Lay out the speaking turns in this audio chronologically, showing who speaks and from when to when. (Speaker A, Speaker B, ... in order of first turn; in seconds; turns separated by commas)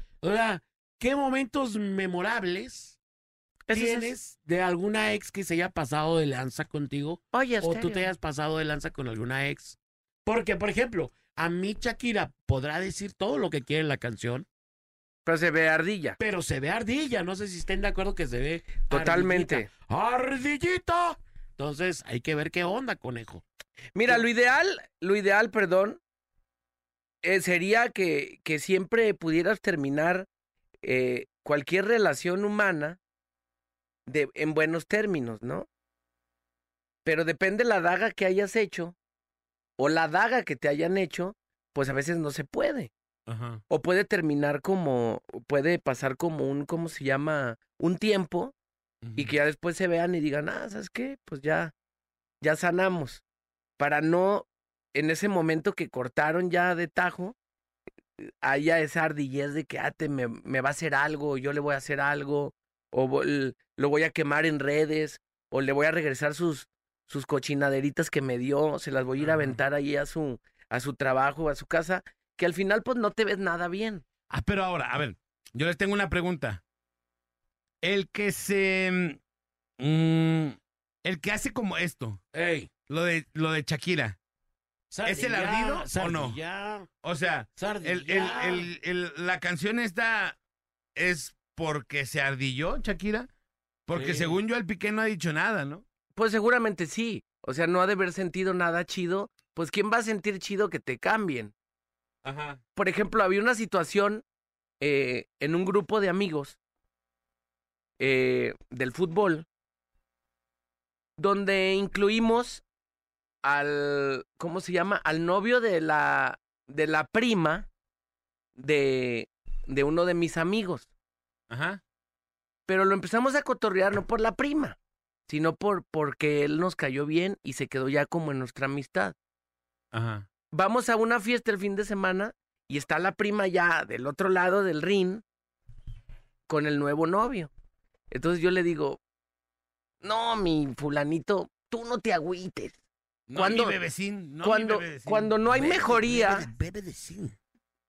Speaker A: 0.2-3.0, Speaker B: 3.7-4.1, Speaker A: 3.7-14.5, Speaker B: 7.3-8.1, Speaker B: 15.3-16.2, Speaker A: 16.2-23.4, Speaker B: 18.9-19.7, Speaker B: 23.9-26.0, Speaker B: 27.2-30.3, Speaker B: 30.8-33.0, Speaker B: 34.1-35.7, Speaker B: 37.0-39.0, Speaker B: 39.8-42.9, Speaker C: 43.3-43.6, Speaker B: 43.7-48.5, Speaker C: 49.0-49.3, Speaker B: 49.2-51.7, Speaker B: 52.4-53.2, Speaker B: 53.8-57.4, Speaker B: 58.4-74.0, Speaker C: 69.2-69.5, Speaker C: 74.3-76.6, Speaker C: 77.8-79.2, Speaker C: 79.8-82.2, Speaker A: 82.3-82.7, Speaker C: 82.9-84.2, Speaker A: 84.9-86.9, Speaker C: 85.0-86.4, Speaker C: 87.0-90.4, Speaker A: 87.6-88.7, Speaker C: 91.0-93.3, Speaker C: 93.9-95.8, Speaker A: 93.9-94.4, Speaker B: 96.2-101.5, Speaker C: 102.2-102.6, Speaker B: 102.8-104.2, Speaker B: 104.8-106.6, Speaker B: 108.0-109.5, Speaker B: 111.2-112.6, Speaker B: 113.4-117.7, Speaker B: 118.6-120.9, Speaker C: 121.5-121.8, Speaker B: 122.7-124.8, Speaker B: 125.3-129.2, Speaker C: 129.9-130.3, Speaker B: 130.5-135.2, Speaker B: 136.5-137.5, Speaker B: 138.1-139.0, Speaker B: 140.0-142.8, Speaker C: 143.3-145.3, Speaker B: 143.3-143.8, Speaker B: 144.4-146.5, Speaker A: 145.5-147.4